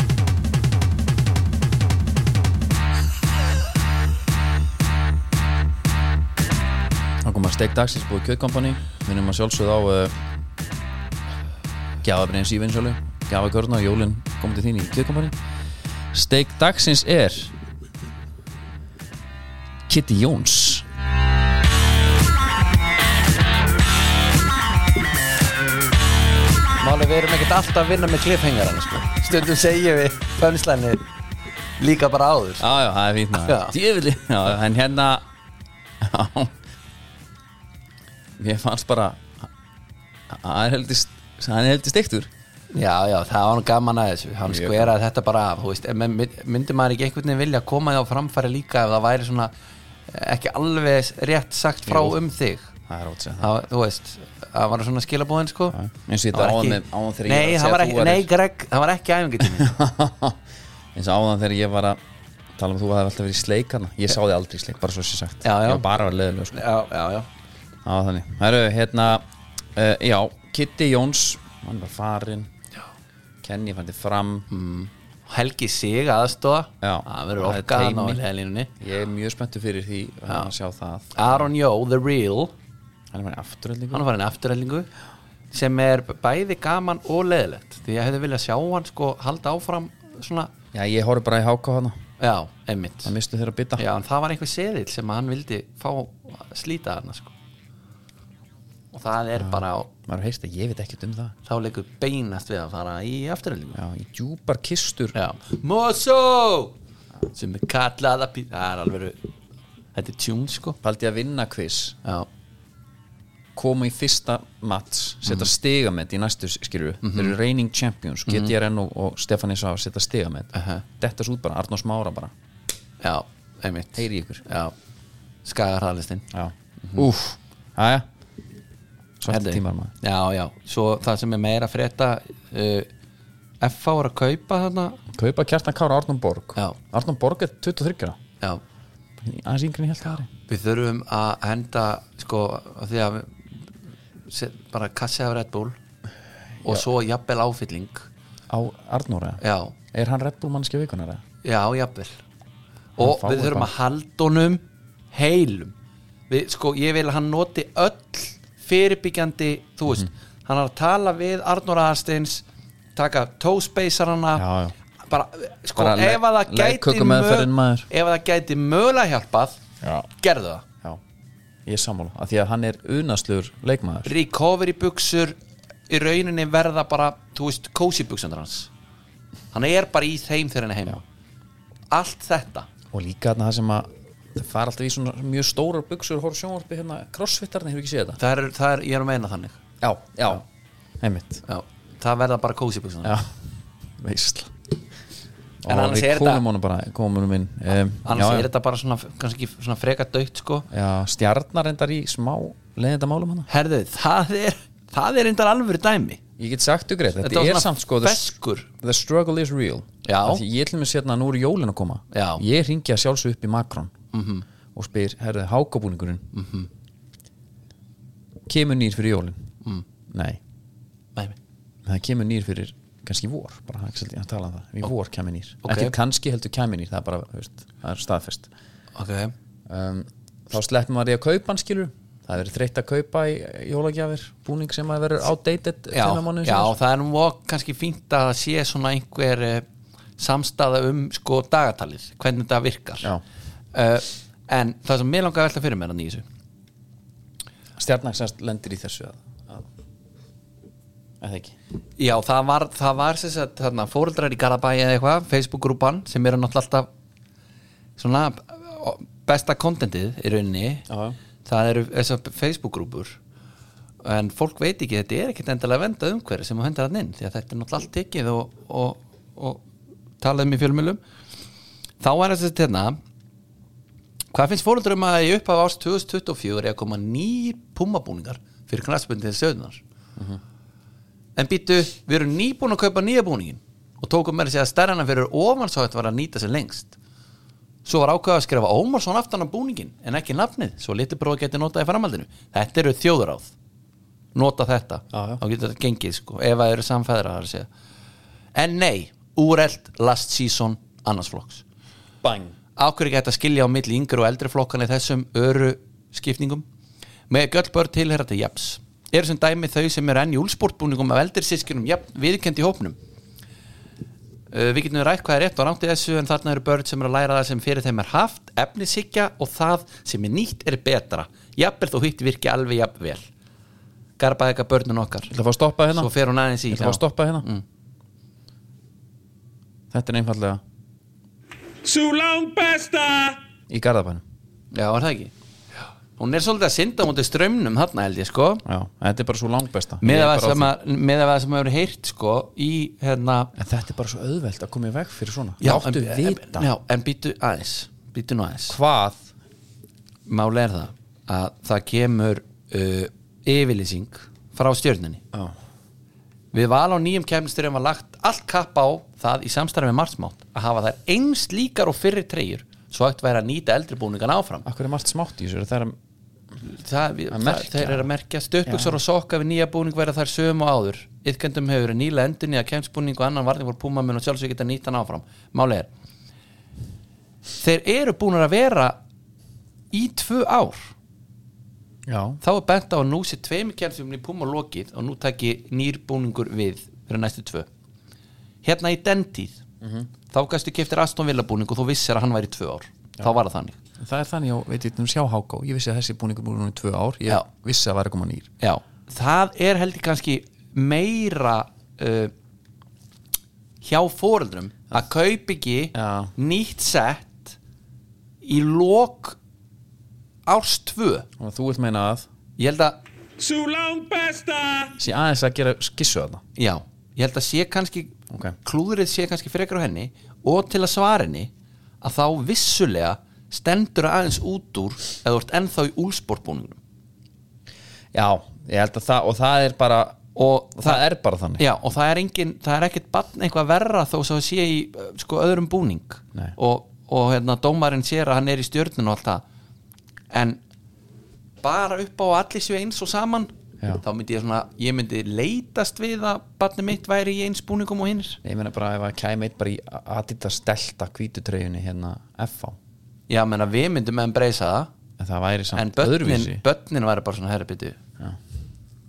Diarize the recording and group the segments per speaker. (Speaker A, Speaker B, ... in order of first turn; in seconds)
Speaker A: 7.2-10.1, 12.0-15.4, 16.1-17.5, 19.9-20.9, 32.6-35.2, 36.0-36.6, 38.4-39.5, 40.3-42.3, 44.5-44.9, 51.9-52.2, 52.9-53.5, 55.7-58.3, 59.5-60.4, 61.0-62.0, 62.6-66.7, 67.8-72.5, 73.4-74.5, 76.8-78.2, 78.8-81.5, 83.1-84.0, 90.7-92.0, 93.0-93.8, 99.4-101.3, 103.8-105.2, 110.8-112.0, 113.5-122.3, 124.0-124.4, 126.3-128.1, 129.2-129.9, 135.1-138.2, 139.2-140.3, 148.5-151.2, 153.0-153.7, 164.4-164.8, 165.8-167.9, 169.8-170.1, 171.7-174.1, 182.9-188.2, 189.8-190.4, 191.0-191.4, 193.0-194.7, 195.6-198.5, 200.7-203.5, 206.4-213.9, 214.8-216.3, 218.5-219.4, 220.1-220.4, 221.8-228.5, 229.7-236.8, 247.8-249.7, 251.2-251.6, 260.9-261.2, 295.1-295.4, 302.2-302.6, 325.3-326.1, 326.7-327.5, 329.9-330.6, 333.7-334.2, 338.6-340.7, 343.6-346.7, 348.7-349.3, 364.6-366.0, 367.3-368.1, 368.7-369.0, 382.1-382.4, 389.8-390.1, 394.0-398.5, 405.9-406.3, 411.4-412.3, 415.0-416.4, 418.3-418.6, 428.1-430.2, 430.8-431.6, 448.4-452.8, 455.2-456.6
Speaker B: 26.8-31.0, 31.8-32.7, 33.3-33.8, 42.7-49.5, 50.1-52.7, 53.4-55.8, 56.3-59.7, 65.4-65.9, 66.5-67.3, 74.5-78.7, 81.2-82.5, 83.9-84.9, 85.5-90.5, 92.2-93.1, 93.8-97.3, 98.9-99.9, 101.5-103.8, 105.1-106.8, 107.3-109.2, 110.0-110.8, 117.0-117.3, 118.3-118.5, 120.5-120.8, 123.0-124.7, 125.5-126.3, 129.3-132.9, 133.6-135.0, 140.5-143.4, 144.3-145.8, 146.6-148.1, 149.4-149.8, 151.4-152.2, 153.0-155.7, 156.3-162.4, 163.0-164.4, 165.1-170.7, 174.1-175.4, 175.9-178.7, 179.5-181.0, 181.9-182.7, 188.2-189.6, 191.5-193.2, 195.7-196.4, 198.1-200.7, 203.5-206.2, 207.2-208.7, 210.0-210.4, 212.1-212.4, 214.1-214.4, 216.3-216.7, 225.6-225.9, 228.9-229.3, 235.9-239.7, 240.2-243.1, 243.7-246.2, 252.0-256.9, 258.0-260.9, 261.4-263.2, 264.0-269.6, 270.2-271.0, 272.0-273.0, 274.3-279.8, 281.4-287.0, 287.9-293.5, 294.4-297.7, 298.6-301.6, 302.8-306.6, 307.3-313.0, 314.5-323.3, 324.2-325.3, 325.9-327.6, 334.7-335.3, 336.2-338.6, 340.0-343.5, 345.6-348.8, 350.3-355.2, 356.5-364.7, 366.6-375.9, 377.6-379.0, 379.9-380.9, 382.4-387.7, 388.6-389.6, 390.3-393.8, 398.6-402.3, 403.8-407.6, 408.4-409.4, 410.5-411.3, 412.6-413.0, 416.6-426.8, 430.4-431.0, 431.6-439.4, 440.3-440.6, 441.6-448.4, 453.3-454.9, 455.7-458.0
Speaker C: 331.8-333.4, 413.4-414.9